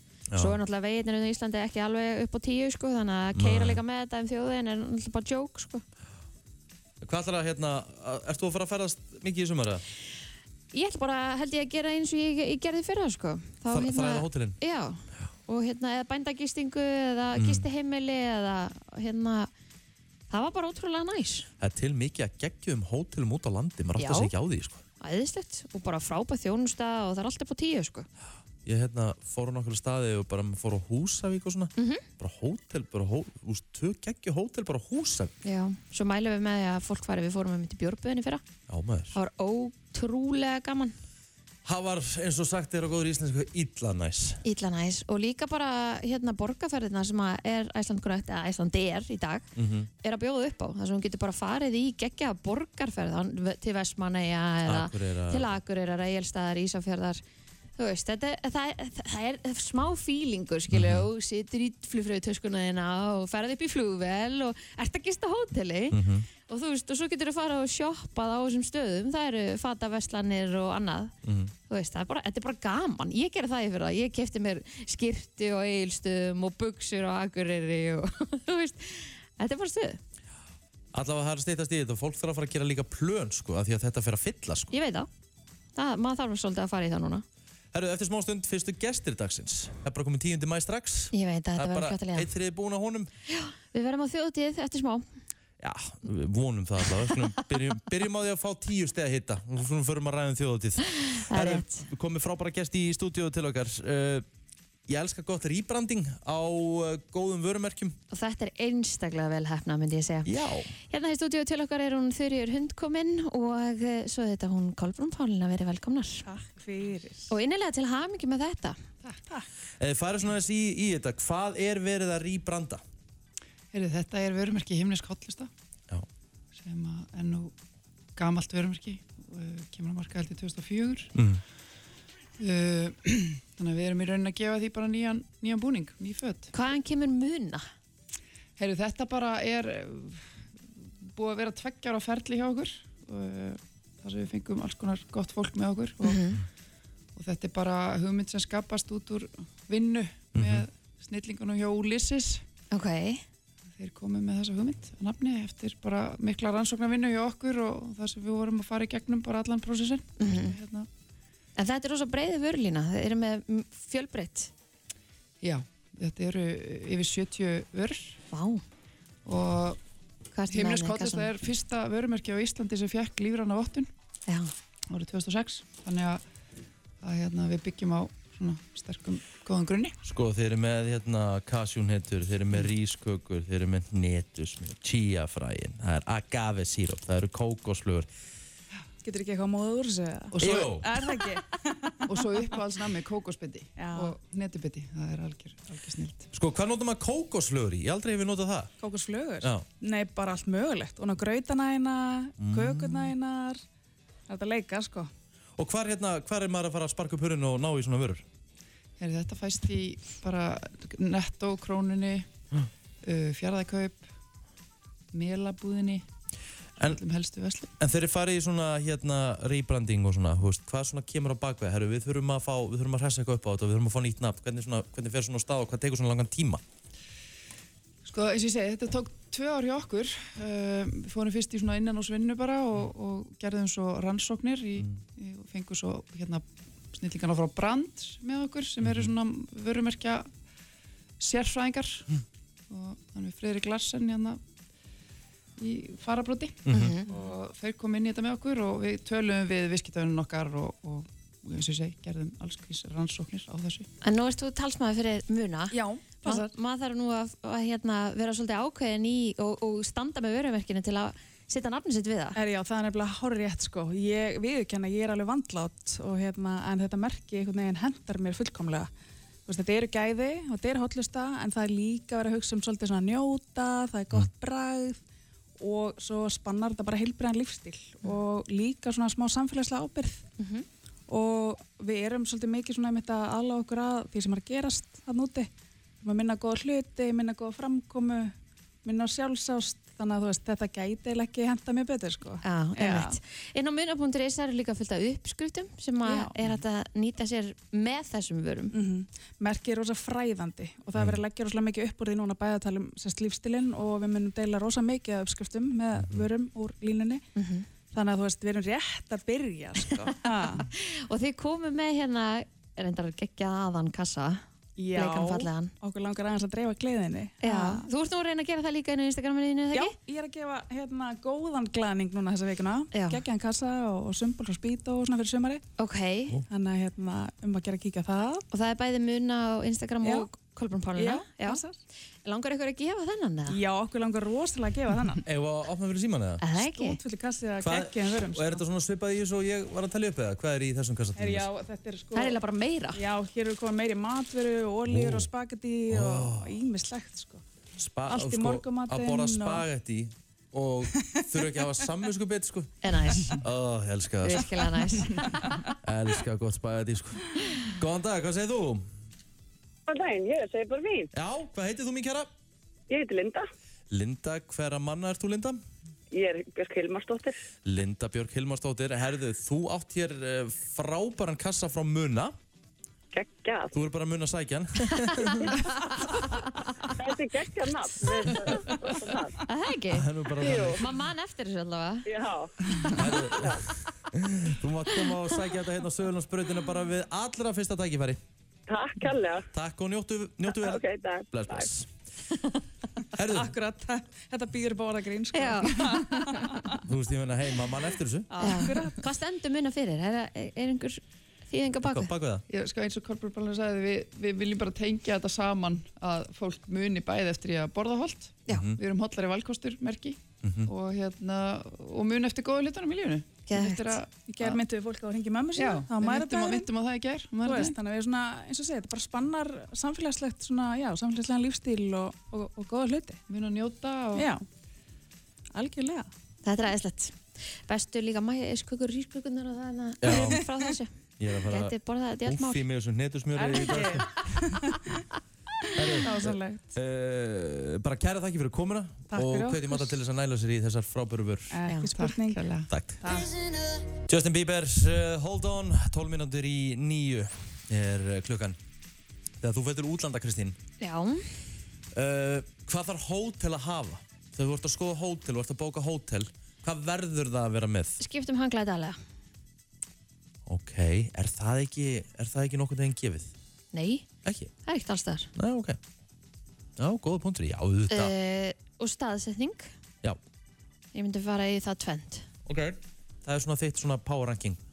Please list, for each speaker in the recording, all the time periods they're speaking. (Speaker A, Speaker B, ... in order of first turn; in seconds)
Speaker A: 0.3-0.6, 3.4-3.8, 7.0-9.8, 13.7-14.6, 17.4-17.7, 21.6-24.8, 28.6-35.3, 38.7-39.1, 41.6-44.4, 49.6-49.9, 54.7-55.5, 60.7-61.1, 65.9-66.3, 71.2-71.5, 80.9-84.7, 87.7-93.1, 95.6-104.2, 104.9-108.0, 110.2-110.7, 119.8-122.8, 131.2-131.4, 150.3-150.7, 180.0-188.1, 190.4-190.9, 196.3-198.7, 202.4-203.1, 205.6-208.2, 217.8-226.6, 238.8-239.1, 246.7-247.0, 300.9-301.2, 306.0-306.3, 335.2-336.4, 337.6-341.5, 344.9-345.3, 345.9-346.5, 347.8-352.8, 353.4-354.5, 355.8-358.9, 361.1-362.3, 363.9-365.6, 367.6-372.4, 373.7-375.4, 379.9-380.9, 382.9-388.2, 389.5-391.9, 393.2-393.5, 396.9-398.3, 401.8-402.4, 408.5-408.8, 410.4-410.7, 430.0-430.4, 431.2-434.1, 435.8-441.6, 442.7-443.0, 444.1-448.6, 449.4-450.6, 451.9-458.0, 460.5-463.3, 464.2-464.5, 465.4-465.8, 466.8-468.1, 472.5-474.6
Speaker B: 0.4-5.8, 10.7-19.5, 20.3-21.5, 24.0-24.3, 25.0-28.1, 31.8-32.0, 35.4-38.4, 39.1-41.0, 44.5-49.5, 50.0-57.2, 57.8-71.1, 71.7-80.0, 84.7-85.1, 85.8-87.2, 91.1-92.3, 93.3-95.1, 101.1-101.9, 108.1-110.3, 110.9-116.3, 117.3-118.8, 136.5-137.7, 146.0-146.4, 152.7-153.2, 160.2-160.6, 161.6-164.5, 168.3-168.6, 170.3-171.3, 246.7-247.1, 254.0-262.4, 280.4-280.7, 292.4-298.7, 307.4-307.7, 310.7-315.7, 317.4-320.0, 322.9-323.2, 325.8-326.4, 328.5-331.6, 332.2-333.6, 336.4-337.0, 342.1-343.0, 352.8-353.4, 354.2-355.6, 375.6-376.7, 379.4-382.1, 382.7-383.0, 395.3-396.5, 398.4-402.1, 413.5-414.0, 426.4-430.9, 431.4-432.6, 433.5-433.9, 441.7-441.9, 450.8-451.3, 458.0-459.0, 463.7-464.1, 464.6-465.3, 467.9-469.7, 470.9-472.3
Speaker C: 116.2-117.3, 189.0-192.8, 193.8-194.2, 198.8-203.6, 204.3-205.1, 255.7-256.5, 262.4-268.9, 269.5-275.0, 275.6-280.3, 281.1-285.5, 286.0-293.2, 296.0-296.4, 298.7-307.2, 307.9-310.7, 314.8-317.9, 319.7-325.6, 326.5-328.5, 330.0-330.3, 331.0-331.8, 333.5-335.2, 336.6-338.6, 341.2-342.4, 342.9-347.4, 348.1-349.6, 355.0-355.6, 393.2-396.8, 398.3-399.1, 414.2-416.7, 417.4-423.2, 424.1-424.4, 425.5-426.1, 430.1-430.7, 433.4-434.8, 435.8-436.7, 439.1-440.0, 441.5-443.3
Speaker D: 123.7-125.5, 126.6-127.5, 128.2-131.1, 132.4-136.5, 138.6-146.3, 147.2-152.4, 153.8-160.9, 165.4-168.2, 169.3-169.8, 170.5-173.9, 174.9-176.2, 177.0-180.0, 190.3-190.8, 192.1-196.3, 209.0-212.3, 213.0-214.1, 215.1-216.1, 216.8-217.7, 228.1-240.3, 241.2-242.1, 242.7-244.4, 245.6-253.9, 402.5-414.6, 415.6-417.8, 423.3-424.3, 441.9-442.7
Speaker E: 359.9-361.1, 362.9-363.5, 366.1-367.4, 373.1-373.7, 377.0-379.4, 380.4-380.8, 382.1-382.5, 383.4-383.6, 388.7-389.5, 390.5-391.7